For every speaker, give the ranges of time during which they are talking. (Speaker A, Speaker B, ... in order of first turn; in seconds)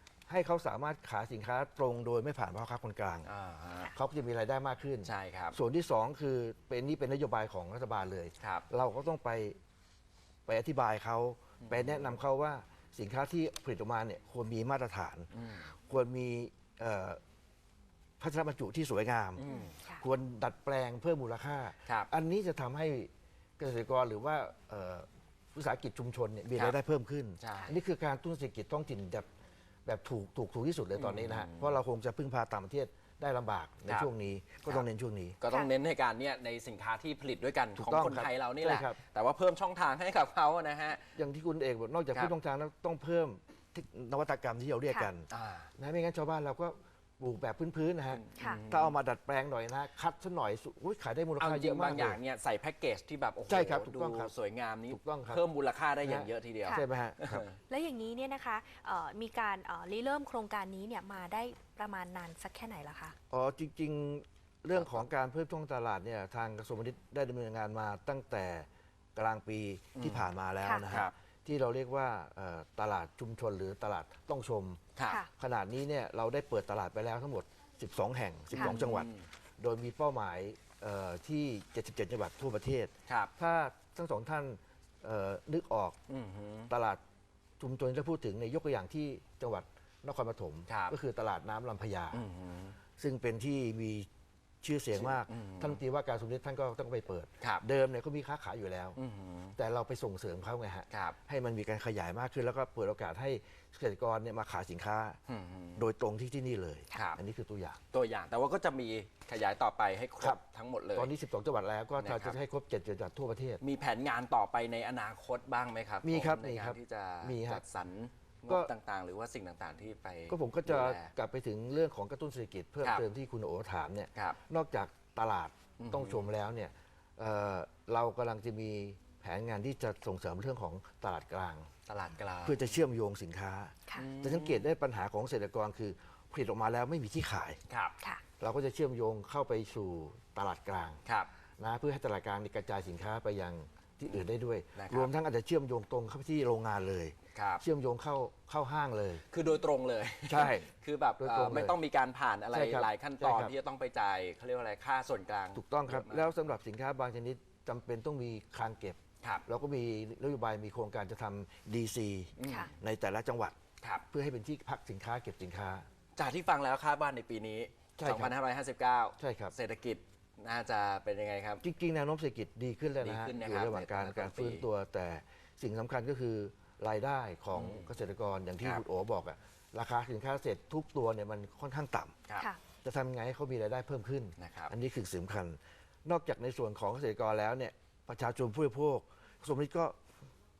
Speaker A: 0.3-3.3, 3.9-9.6, 10.4-17.2, 18.2-29.3, 29.8-35.4, 37.8-39.0, 41.1-52.2, 53.5-54.3, 54.9-55.4, 56.0-57.5, 63.3-74.8, 75.3-86.0, 86.7-87.0, 87.6-92.2, 93.0-94.1, 94.6-99.0, 99.5-105.2, 105.8-107.8, 110.9-113.6, 116.0-117.6, 120.3-131.7, 132.4-137.6, 138.4-141.0, 141.6-149.2, 150.2-151.8, 152.5-153.5, 155.5-163.6, 164.1-165.8, 168.0-168.3, 169.2-169.5, 171.6-182.2, 182.8-190.0
Speaker B: 3.2-3.9, 5.0-5.6, 8.4-8.6, 11.6-12.1, 15.3-15.7, 19.4-19.8, 27.4-27.8, 31.0-31.8, 35.4-41.1, 45.3-45.7, 48.1-49.0, 51.4-57.5, 64.7-65.0, 70.0-70.3, 75.0-75.2, 78.5-79.3, 83.1-83.3, 86.1-86.7, 90.7-91.0, 92.1-92.8, 94.9-95.8, 99.0-99.5, 100.9-101.2, 105.3-105.9, 106.9-107.2, 107.9-111.1, 112.0-112.4, 113.6-121.1, 125.8-126.3, 131.9-132.8, 133.9-134.7, 137.7-137.9, 144.8-145.1, 147.3-147.6, 149.3-156.3, 162.4-162.7, 163.8-164.1, 166.2-171.6, 173.0-174.6, 177.5-177.9, 184.4-184.7
Speaker C: 19.5-20.0, 48.4-48.6, 57.7-63.1, 162.4-162.7